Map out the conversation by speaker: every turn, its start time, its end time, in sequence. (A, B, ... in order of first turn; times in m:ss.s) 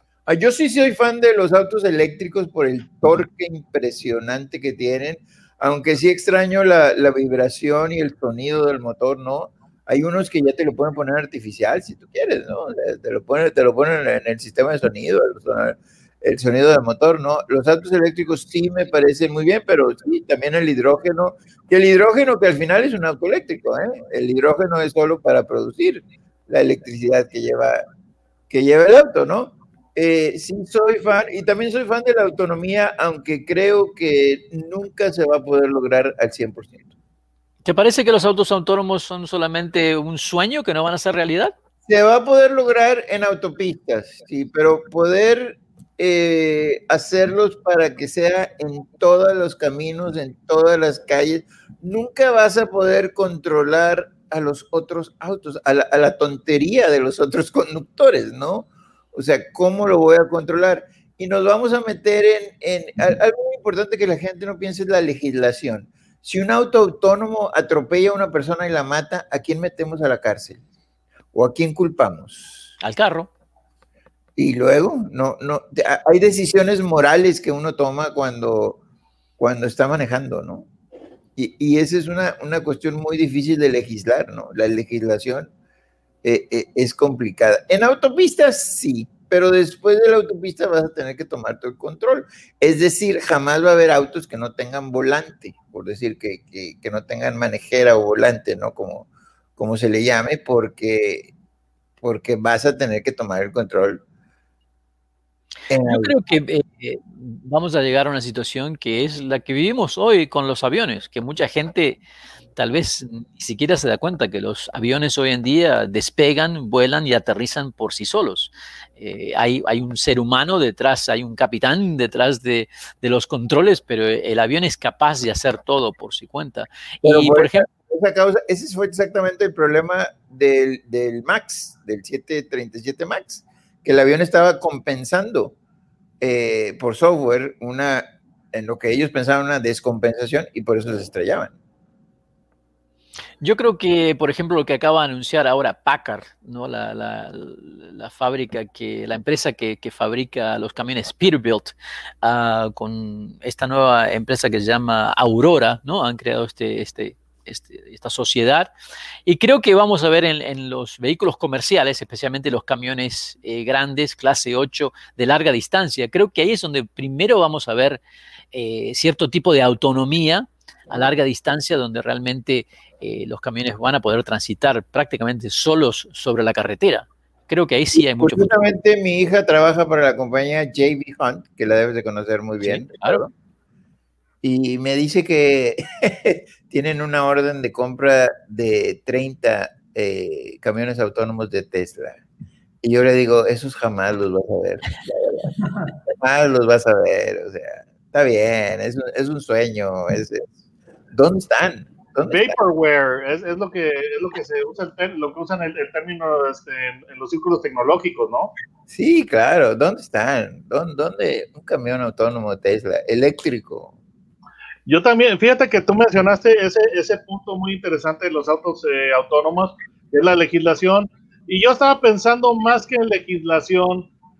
0:00.3-0:27.8 A
0:28.5-0:36.9 A
0:37.6-0:41.5 B
0:41.8-1:10.6 A
1:11.3-1:12.7 A
1:12.8-1:13.3 B
1:14.4-1:18.8 A
1:19.4-1:20.7 A
1:21.4-1:25.5 A
1:26.2-1:41.3 A
1:42.0-1:44.0 A
1:45.7-1:46.1 A
1:45.8-1:52.0 B
1:52.6-2:07.6 B
2:07.0-2:15.5 A
2:16.2-2:21.5 A
2:23.4-2:38.7 B
2:39.2-2:48.0 B
2:48.5-2:58.5 B
2:58.2-3:03.3 A
3:02.6-3:03.2 B
3:04.4-3:12.2 A
3:12.8-3:15.5 A
3:16.1-3:20.5 A
3:21.1-3:22.6 A
3:22.3-3:28.5 C
3:28.9-3:33.9 A
3:34.8-3:44.1 C